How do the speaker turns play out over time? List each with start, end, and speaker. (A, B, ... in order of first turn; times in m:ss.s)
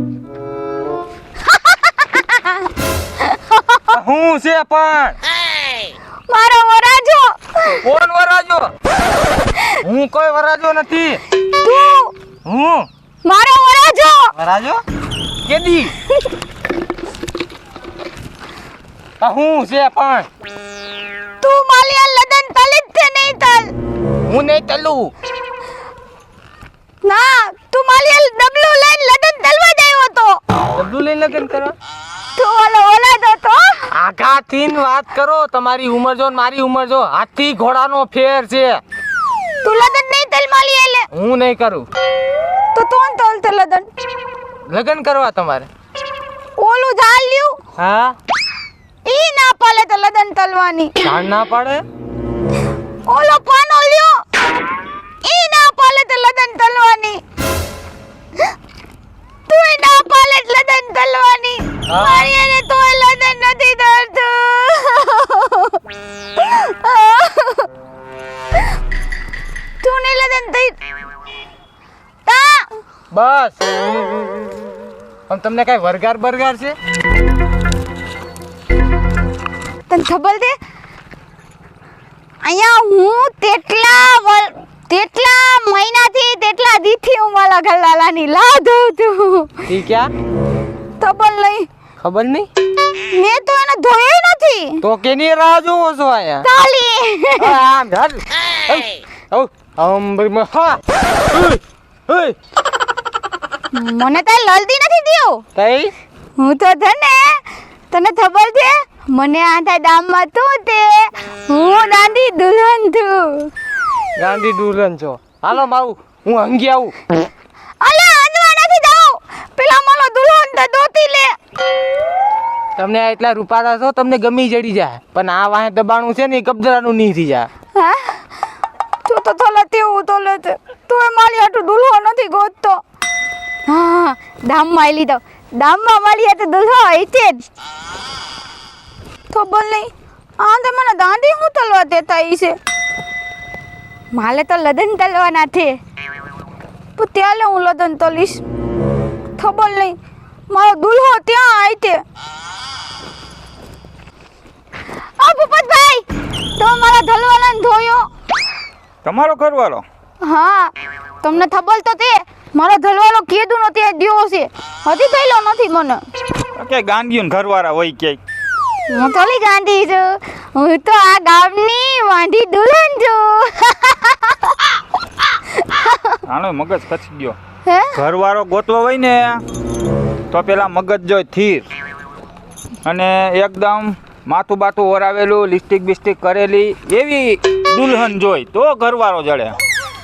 0:02.0-0:02.4 A
0:03.5-0:03.8 A
0:03.9-0:05.2 B
0:06.3-0:07.8 A
0:07.8-0:08.7 B
0:09.8-0:11.2 B
0:11.6-0:12.1 A
0:12.4-0:12.9 B
0:13.2-0:14.3 A
0:14.4-0:14.8 B
0:15.4-0:16.0 B
0:19.2-0:20.3 B
0:21.4-0:23.7 A
0:24.3-0:25.1 B
0:27.0-0:30.4 A
0:30.7-0:31.7 B
0:32.4-0:33.9 A
0:33.9-0:38.8 B
0:39.6-0:41.1 A
0:41.1-0:41.9 B
0:42.7-0:43.9 A
0:44.7-0:45.7 B
0:46.6-0:47.6 A
0:47.8-0:48.2 B
0:49.1-0:50.9 A
0:51.0-0:51.8 B
0:53.1-0:54.2 A
0:55.2-0:57.2 A
0:59.5-1:05.8 A
1:01.9-1:02.3 B
1:06.4-1:07.7 A
1:09.8-1:10.8 A
1:12.3-1:12.7 A
1:13.1-1:13.6 B
1:15.3-1:16.8 B
1:19.9-1:20.6 A
1:22.4-1:29.5 A
1:29.7-1:30.1 B
1:31.0-1:31.7 A
1:32.0-1:32.5 B
1:33.1-1:34.8 A
1:34.8-1:36.4 B
1:36.4-1:37.6 A
1:37.4-1:42.4 B
1:43.7-1:45.4 A
1:45.6-1:45.9 B
1:46.4-1:53.5 A
1:54.2-1:57.0 B
1:57.8-2:01.4 A
2:02.8-2:07.5 B
2:07.8-2:08.2 A
2:09.1-2:12.8 A
2:13.7-2:17.4 A
2:19.3-2:22.6 A
2:24.1-2:25.8 A
2:27.0-2:28.4 A
2:29.4-2:30.0 A
2:30.5-2:32.0 A
2:35.2-2:36.0 A
2:36.6-2:38.1 A
2:39.0-2:39.8 C
2:40.2-2:46.0 A
2:46.6-2:48.2 C
2:48.9-2:54.5 A
2:55.6-2:56.2 A
2:56.3-2:57.4 C
2:57.7-2:58.0 A
2:58.0-2:59.4 C
3:00.3-3:01.7 C
3:02.8-3:09.6 C